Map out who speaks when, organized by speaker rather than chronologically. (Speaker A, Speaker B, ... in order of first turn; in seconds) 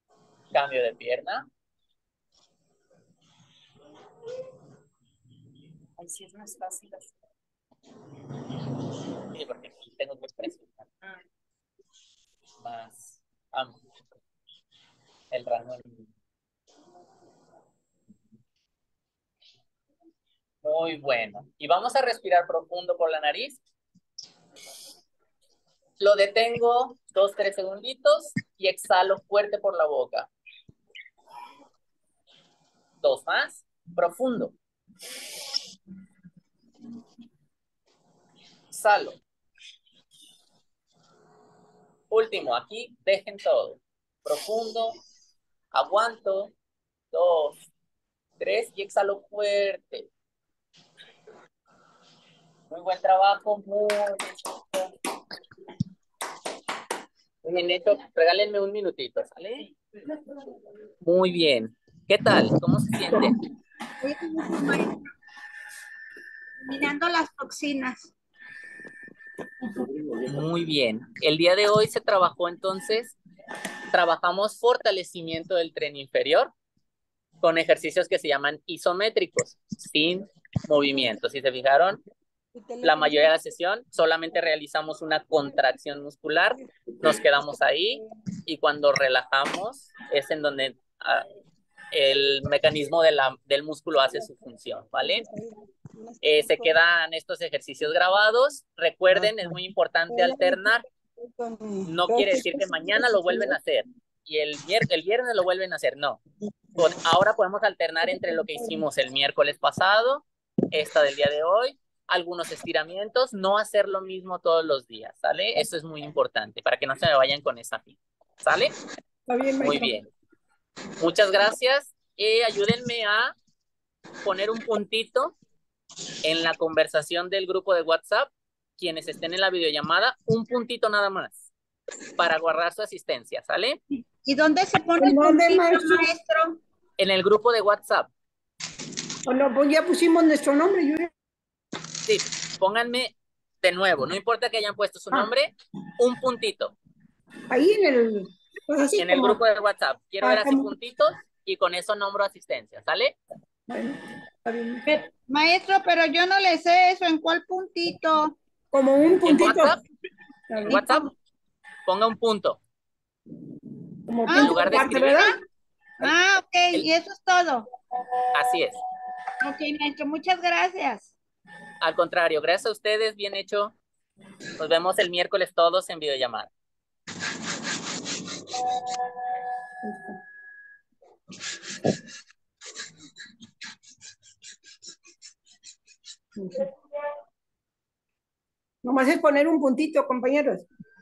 Speaker A: 0.5-1.5, 6.0-7.0, 9.3-10.9, 12.6-13.8, 15.3-16.1, 20.6-23.6, 26.0-30.3, 33.0-34.5, 38.7-39.2, 42.1-45.0, 45.7-46.5, 47.1-47.7, 48.4-50.1, 52.7-54.9, 57.4-59.7, 61.0-63.3, 70.2-73.2, 73.9-76.5, 77.4-82.0, 82.8-91.3, 91.9-95.3, 96.2-100.8, 101.8-106.2, 106.8-118.7, 119.6-120.1, 121.0-123.3, 124.2-125.3, 126.2-131.5, 132.2-133.8, 137.0-138.1, 142.0-146.8, 149.0-153.2, 159.2-159.8, 160.6-161.1, 161.8-162.6, 164.3-165.3, 168.3-168.8, 171.8-173.8, 174.6-176.5
Speaker B: 64.0-65.0, 66.6-68.1, 134.0-136.6, 154.8-158.3, 164.2-165.4, 166.0-167.7, 169.4-171.1
Speaker C: 95.2-96.1, 101.2-103.3, 119.3-119.9, 135.0-136.1, 139.2-141.1, 147.5-149.4, 150.2-150.7, 153.7-154.9, 158.7-159.8, 160.5-160.8, 164.1-165.3, 179.8-180.2, 186.3-186.7, 188.8-190.7